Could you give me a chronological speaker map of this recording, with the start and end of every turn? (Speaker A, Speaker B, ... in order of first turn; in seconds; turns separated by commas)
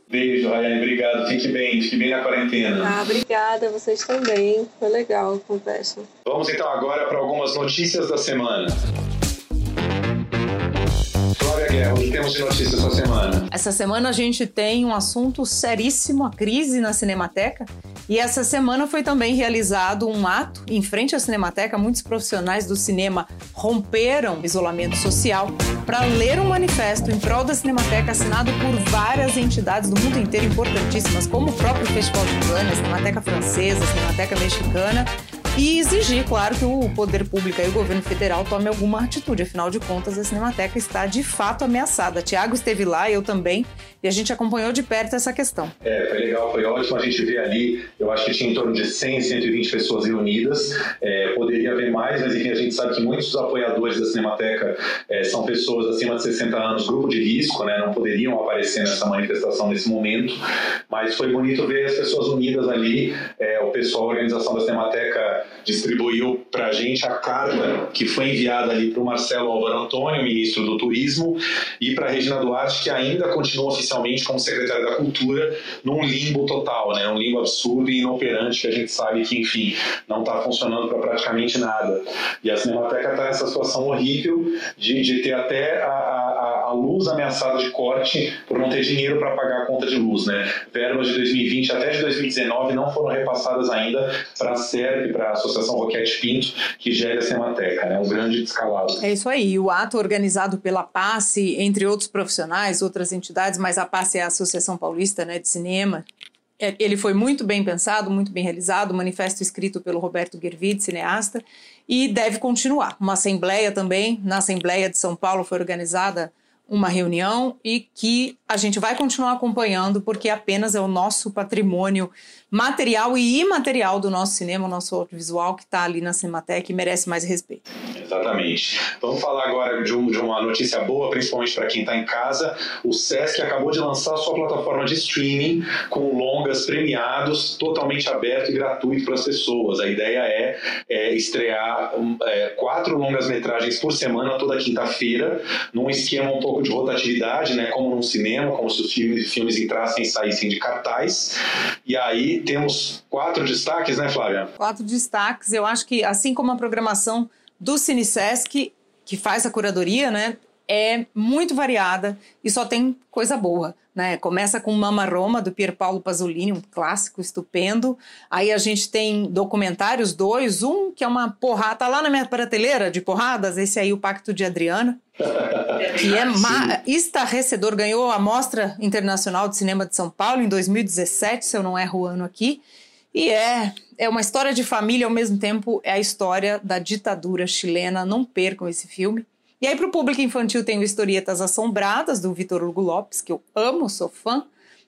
Speaker A: 0.1-2.9, Speaker B: 2.8-6.1, Speaker A: 6.3-8.8, Speaker A: 11.4-13.5, Speaker C: 13.5-45.7, Speaker A: 45.8-99.0, Speaker C: 99.0-106.0, Speaker C: 106.6-127.7, Speaker A: 128.0-154.5, Speaker C: 154.6-175.0, Speaker C: 175.8-182.6, Speaker C: 183.1-194.5